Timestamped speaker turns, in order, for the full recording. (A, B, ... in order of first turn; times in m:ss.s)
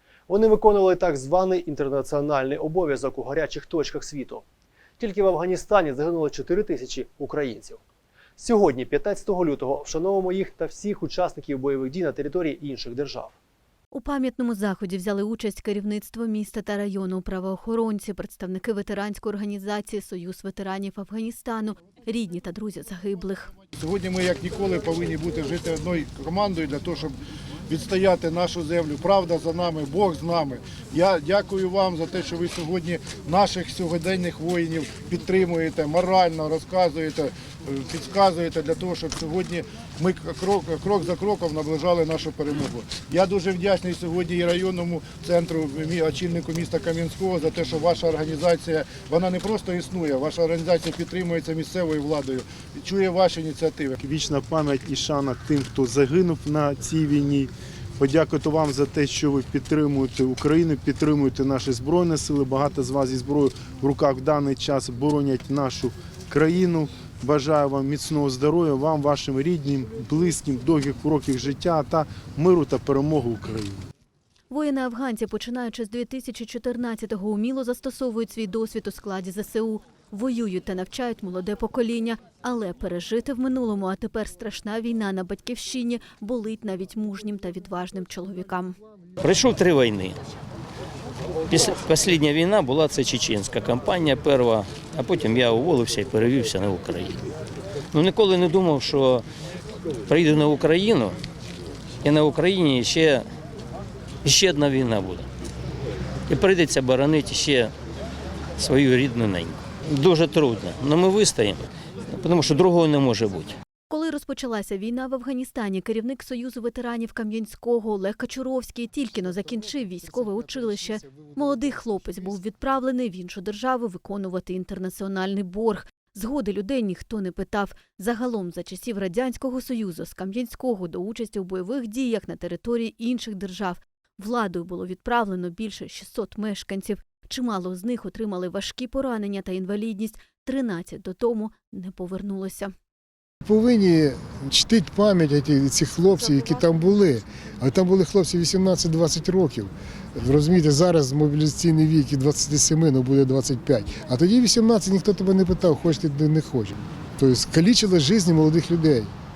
0:00.3-0:04.4 A
0:05.0-0:07.8 A
0:08.4-0:13.3 A
0:13.9-0:23.5 B
0:23.8-0:27.2 C
0:27.7-0:54.0 C
0:54.0-1:13.8 D
1:14.5-1:28.8 B
1:29.2-1:30.2 E
1:31.5-1:37.2 E
1:37.9-1:39.2 E
1:40.1-1:41.2 E
1:42.0-1:43.2 E
1:44.2-1:45.3 E
1:46.3-1:47.7 E
1:48.6-1:51.6 E
1:52.2-1:53.6 E
1:53.9-2:22.7 B
2:01.1-2:01.3 F
2:23.4-2:39.1 F